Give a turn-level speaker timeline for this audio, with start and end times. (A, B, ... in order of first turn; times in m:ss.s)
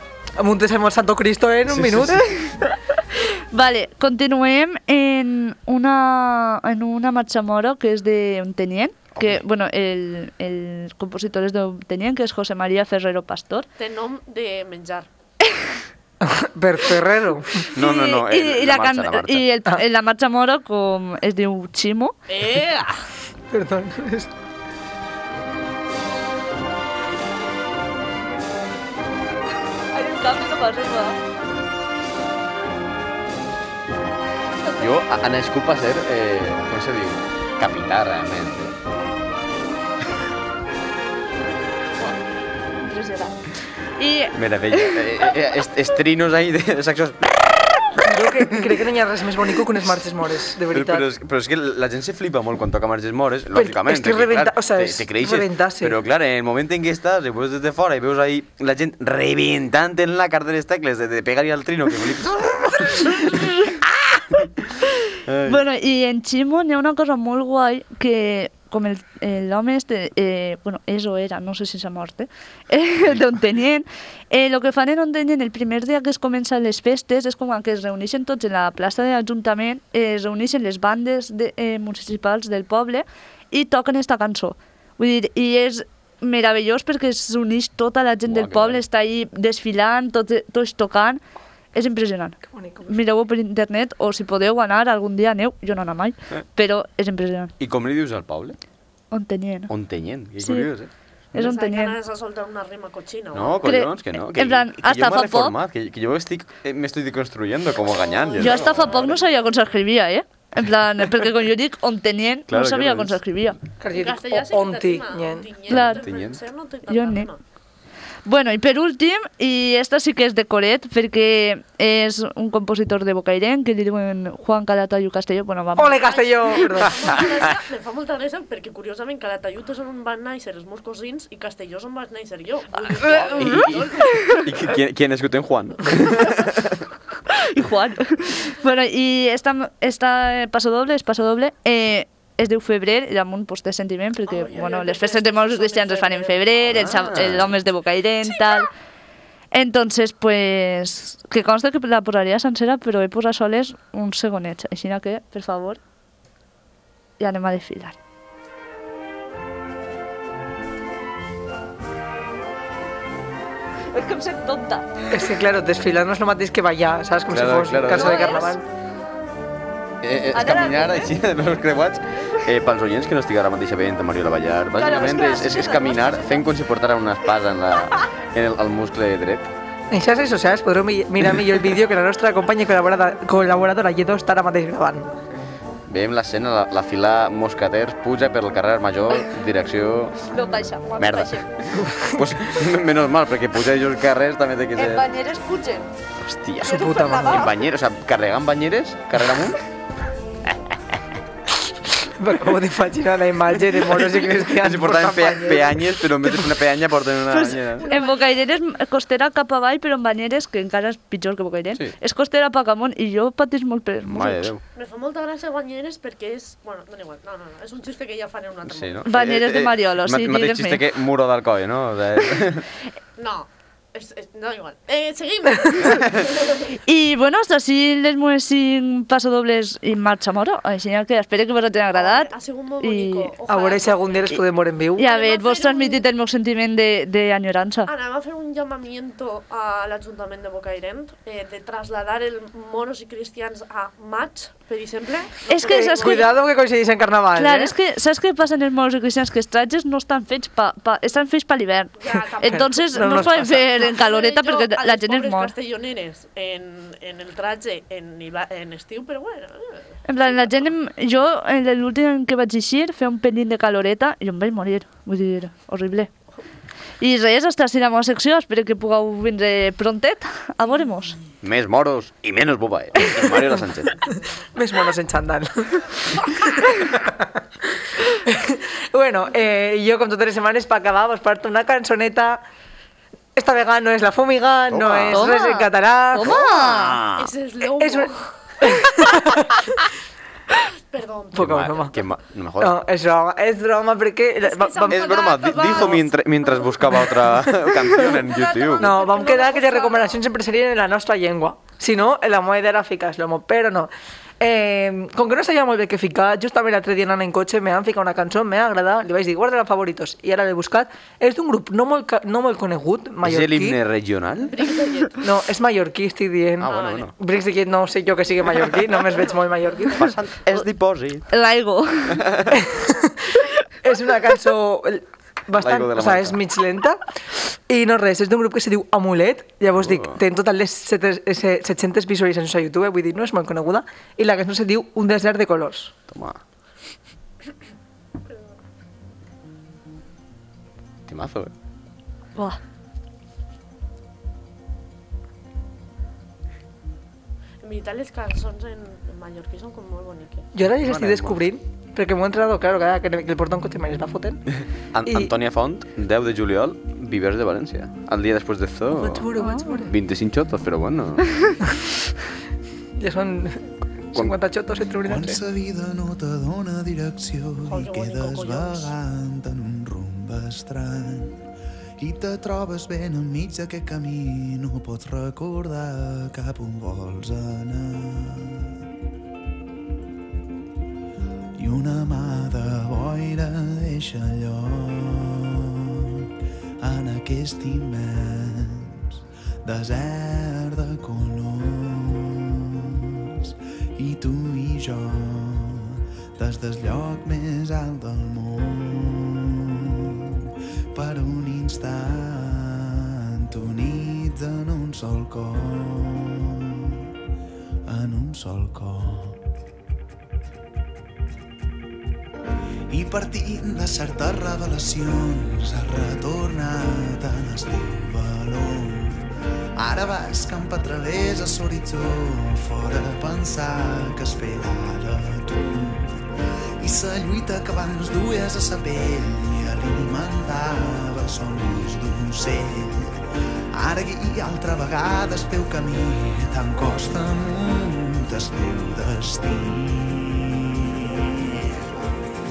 0:00.4-0:02.3 A
0:01.7-0:02.2 B
0:02.1-0:02.5 C
0:03.1-0:13.7 C
0:09.1-0:09.4 B
0:13.8-0:15.1 D
0:16.2-0:17.7 A
0:17.7-0:19.5 B
0:17.7-0:22.2 C
0:22.3-0:23.0 D
0:23.5-0:24.3 A
0:29.9-0:31.2 C
0:34.8-0:38.7 B
0:42.8-0:43.4 C
0:44.0-0:45.0 C
0:44.3-0:48.0 B
0:48.0-0:51.1 A
0:50.7-1:04.7 B
0:53.5-0:56.0 A
1:03.4-1:03.8 C
1:05.2-1:05.6 B
1:05.4-1:31.2 C
1:28.2-1:28.8 B
1:31.7-1:37.5 C
1:32.5-1:33.0 A
1:37.6-1:38.6 B
1:39.1-1:39.7 C
1:39.7-1:40.9 B
1:40.4-1:40.7 C
1:41.3-1:42.0 C
1:41.3-1:43.7 D
1:43.3-1:49.1 B
1:43.6-1:45.5 C
1:48.0-1:49.6 D
1:48.4-1:53.6 C
1:52.5-1:53.2 B
1:53.8-1:55.5 A
1:53.9-1:57.4 D
1:55.7-1:56.0 C
1:55.7-1:56.4 B
1:56.9-1:57.3 C
1:58.2-2:06.1 C
2:05.7-2:07.2 A
2:05.9-2:14.1 D
2:12.9-2:16.8 B
2:13.0-2:14.5 C
2:17.3-2:28.7 C
2:24.2-2:27.0 D
2:26.7-2:27.5 B
2:29.5-2:35.8 C
2:37.2-2:38.0 C
2:43.9-2:44.9 C
2:45.1-2:48.6 A
2:47.3-2:48.3 B
2:47.9-2:48.5 C
2:50.0-2:59.5 B
2:50.3-2:51.1 C
2:54.8-2:56.5 C
2:59.9-3:05.2 A
3:05.9-3:10.3 B
3:10.3-3:11.4 C
3:11.0-3:11.5 B
3:11.7-3:12.5 A
3:12.1-3:15.0 B
3:14.8-3:15.9 C
3:16.2-3:19.6 B
3:16.6-3:17.5 A
3:16.6-3:17.6 C
3:22.0-3:26.6 A
3:24.0-3:27.8 B
3:27.3-3:34.5 C
3:27.6-3:28.4 D
3:34.0-3:34.6 B
3:34.7-3:39.1 D
3:38.7-3:42.6 B
3:39.1-3:40.8 C
3:43.2-3:46.8 D
3:46.8-3:53.3 C
3:51.9-3:54.4 D
3:53.5-3:55.1 A
3:55.0-3:57.9 C
3:55.0-3:56.0 D
3:57.8-4:06.4 D
4:05.5-4:06.3 C
4:05.6-4:07.7 A
4:07.4-4:15.5 C
4:12.0-4:19.9 D
4:12.4-4:13.8 A
4:20.1-4:26.1 C
4:27.0-4:31.2 C
4:31.4-4:34.0 B
4:34.5-4:42.4 A
4:43.3-4:46.4 A
4:44.7-4:45.3 B
4:45.1-4:47.0 C
4:46.2-4:47.3 B
4:47.2-4:48.8 D
4:47.8-4:49.8 A
4:50.6-4:51.6 D
4:51.3-4:52.0 A
4:51.4-4:52.8 B
4:52.6-4:55.0 A
4:54.4-4:56.6 D
4:54.9-4:58.9 B
4:57.8-5:00.2 D
4:58.8-5:13.8 A
5:13.2-5:14.7 B
5:14.4-5:15.3 D
5:15.2-5:20.2 A
5:16.6-5:17.1 B
5:16.6-5:17.1 D
5:20.0-5:21.3 B
5:21.3-5:22.3 C
5:22.1-5:22.6 B
5:22.5-5:35.9 A
5:25.5-5:26.4 B
5:29.8-5:30.2 B
5:36.1-5:36.4 B
5:41.1-5:41.5 B
5:47.6-5:50.5 D
5:50.5-5:54.4 A
5:50.8-5:51.4 B
5:54.5-5:59.3 B
5:55.0-5:55.3 A
5:58.9-5:59.9 A
5:59.4-5:59.8 C
5:59.8-6:01.5 B
6:03.0-6:05.4 A
6:05.0-6:11.4 E
6:07.6-6:08.9 D
6:12.0-6:18.7 E
6:21.6-6:47.1 E
6:47.9-6:49.4 E
6:52.9-6:59.3 E
6:59.8-7:06.3 E
7:06.8-7:21.8 E